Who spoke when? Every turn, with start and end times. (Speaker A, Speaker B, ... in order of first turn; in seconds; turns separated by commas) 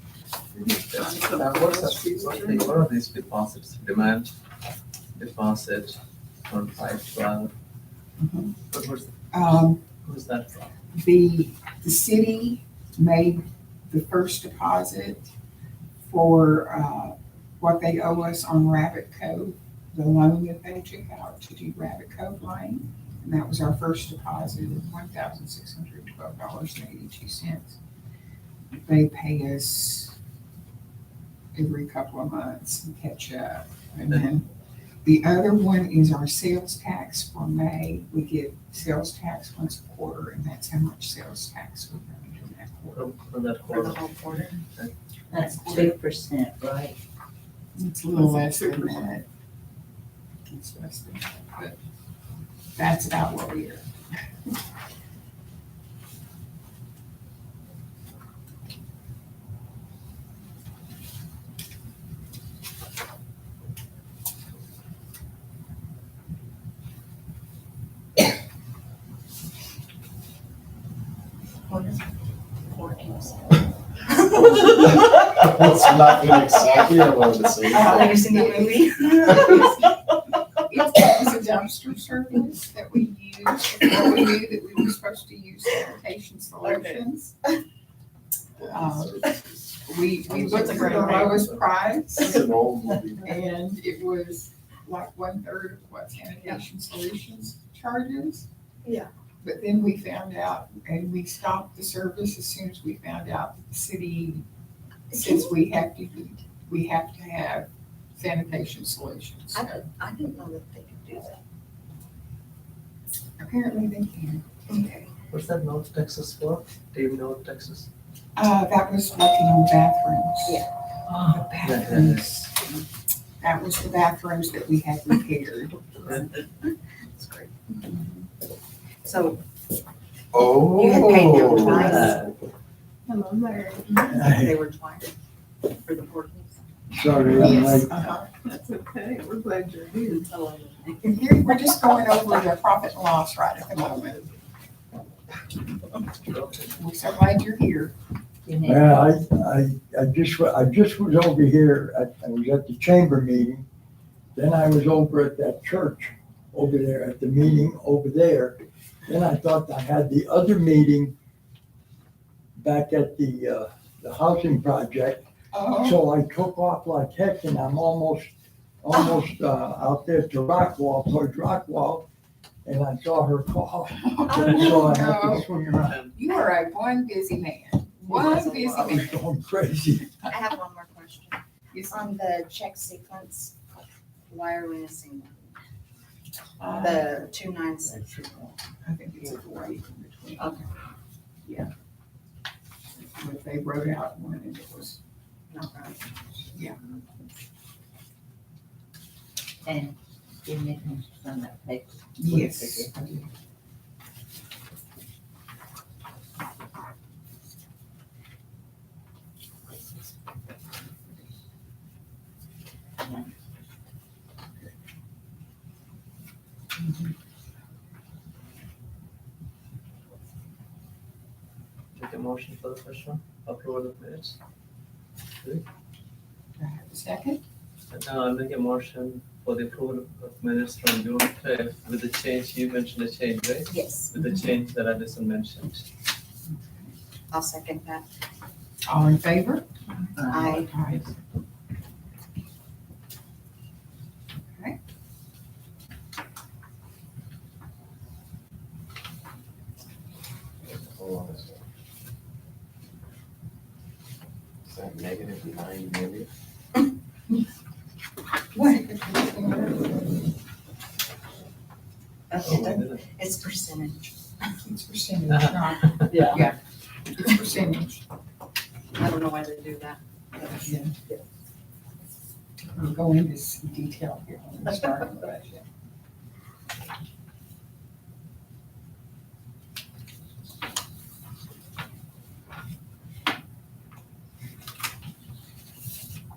Speaker A: 0.6-4.3, Speaker B: 0.6-2.8, Speaker A: 5.1-7.5, Speaker C: 8.2-8.6, Speaker A: 8.7-9.1, Speaker C: 9.3-9.8, Speaker A: 10.0-10.7, Speaker C: 10.9-15.3, Speaker C: 16.1-27.8, Speaker C: 28.7-30.1, Speaker C: 31.5-34.5, Speaker C: 35.0-43.1, Speaker A: 42.9-44.9, Speaker D: 43.7-44.6, Speaker E: 45.3-47.0, Speaker C: 45.4-45.9, Speaker C: 47.7-49.2, Speaker B: 48.1-49.1, Speaker C: 50.5-51.8, Speaker C: 52.8-53.9, Speaker D: 71.7-72.1, Speaker D: 72.7-73.6, Speaker D: 74.3-74.6, Speaker F: 74.7-78.2, Speaker D: 77.7-79.7, Speaker C: 77.7-80.0, Speaker C: 80.5-87.3, Speaker F: 88.6-89.4, Speaker C: 88.6-89.3, Speaker C: 89.8-92.4, Speaker A: 90.3-91.6, Speaker F: 90.4-91.3, Speaker D: 90.5-91.3, Speaker F: 92.2-93.3, Speaker C: 93.2-98.5, Speaker D: 98.8-99.1, Speaker C: 99.4-104.4, Speaker D: 105.1-105.5, Speaker C: 105.1-109.8, Speaker D: 109.5-111.4, Speaker C: 113.4-114.5, Speaker D: 114.7-115.1, Speaker A: 115.3-117.9, Speaker C: 118.3-120.6, Speaker A: 121.1-122.4, Speaker C: 121.2-122.8, Speaker C: 123.4-126.4, Speaker D: 126.6-127.8, Speaker C: 127.8-128.3, Speaker D: 129.0-129.4, Speaker F: 130.3-132.2, Speaker D: 130.6-132.2, Speaker A: 131.5-132.3, Speaker B: 133.1-134.3, Speaker G: 134.0-134.6, Speaker D: 134.2-135.1, Speaker D: 135.7-136.5, Speaker G: 136.9-137.9, Speaker C: 137.3-138.3, Speaker B: 138.3-140.3, Speaker D: 140.3-141.5, Speaker C: 141.1-144.2, Speaker A: 146.2-146.8, Speaker C: 146.7-147.9, Speaker E: 148.4-149.0, Speaker G: 148.6-153.7, Speaker G: 154.3-161.1, Speaker G: 162.6-172.1, Speaker C: 165.5-166.0, Speaker G: 172.7-176.0, Speaker C: 174.0-175.5, Speaker D: 174.3-174.9, Speaker A: 175.9-176.1, Speaker C: 176.1-179.2, Speaker A: 178.1-178.9, Speaker D: 178.2-179.1, Speaker G: 178.8-180.2, Speaker D: 180.3-181.4, Speaker C: 181.7-182.1, Speaker D: 181.9-183.5, Speaker D: 184.3-185.6, Speaker C: 186.6-187.3, Speaker D: 186.6-188.1, Speaker G: 187.9-188.4, Speaker C: 188.8-190.7, Speaker D: 190.4-190.6, Speaker C: 192.9-195.0, Speaker D: 195.5-197.0, Speaker E: 199.6-202.9, Speaker C: 202.2-203.3, Speaker C: 216.8-217.1, Speaker A: 221.9-224.4, Speaker C: 226.6-227.4, Speaker A: 227.9-235.8, Speaker D: 233.7-234.1, Speaker C: 234.2-234.5, Speaker C: 236.4-236.9, Speaker D: 237.3-238.0, Speaker C: 238.9-241.1, Speaker E: 240.2-240.6, Speaker D: 240.3-240.7, Speaker C: 244.4-244.8, Speaker F: 250.7-251.6, Speaker F: 254.6-256.3, Speaker C: 258.5-260.1, Speaker D: 262.3-264.1, Speaker A: 262.4-263.0, Speaker C: 262.5-262.8, Speaker C: 264.6-266.6, Speaker D: 266.0-266.4, Speaker A: 266.1-266.3, Speaker C: 267.1-268.0, Speaker D: 268.9-271.2, Speaker C: 270.6-270.9, Speaker C: 272.6-275.6, Speaker D: 274.6-275.3